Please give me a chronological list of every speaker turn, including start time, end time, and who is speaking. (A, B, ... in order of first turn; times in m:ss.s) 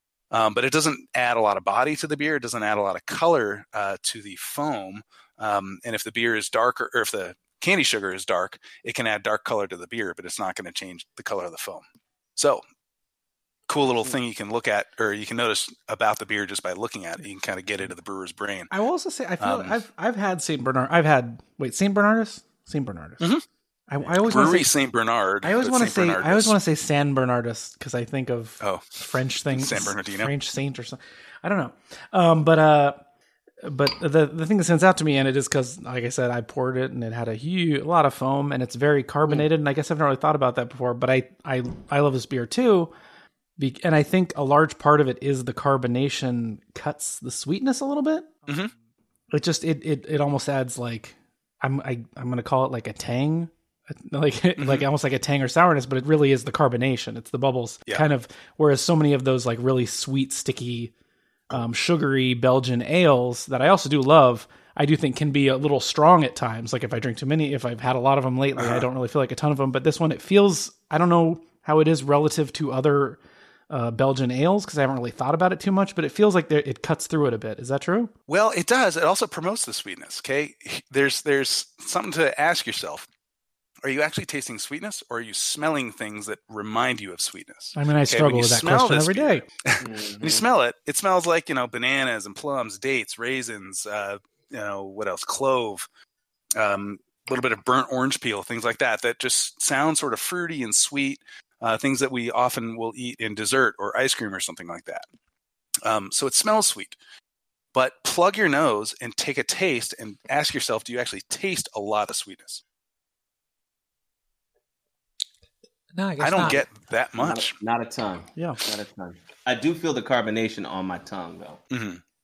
0:00.3-0:11.8 A
0:12.4-0:12.6 A
0:13.7-0:18.7 A
0:18.7-0:23.2 B
0:19.4-0:19.7 A
0:23.9-0:24.7 B
0:24.2-0:26.6 A
0:25.4-0:33.0 B
0:28.6-0:30.3 A
0:33.6-0:42.9 B
0:43.6-0:48.5 B
0:48.5-0:48.7 A
0:49.3-1:00.9 B
0:54.6-0:54.9 A
1:01.5-1:18.1 B
1:08.6-1:08.9 A
1:18.3-1:23.1 A
1:23.8-1:35.9 A
1:27.8-1:29.4 B
1:29.8-1:30.5 C
1:36.6-1:45.0 A
1:45.8-1:47.0 A
1:47.7-1:52.6 A
1:56.2-1:57.6 A
1:57.2-2:01.6 C
1:58.4-1:58.6 B
2:01.7-2:02.0 A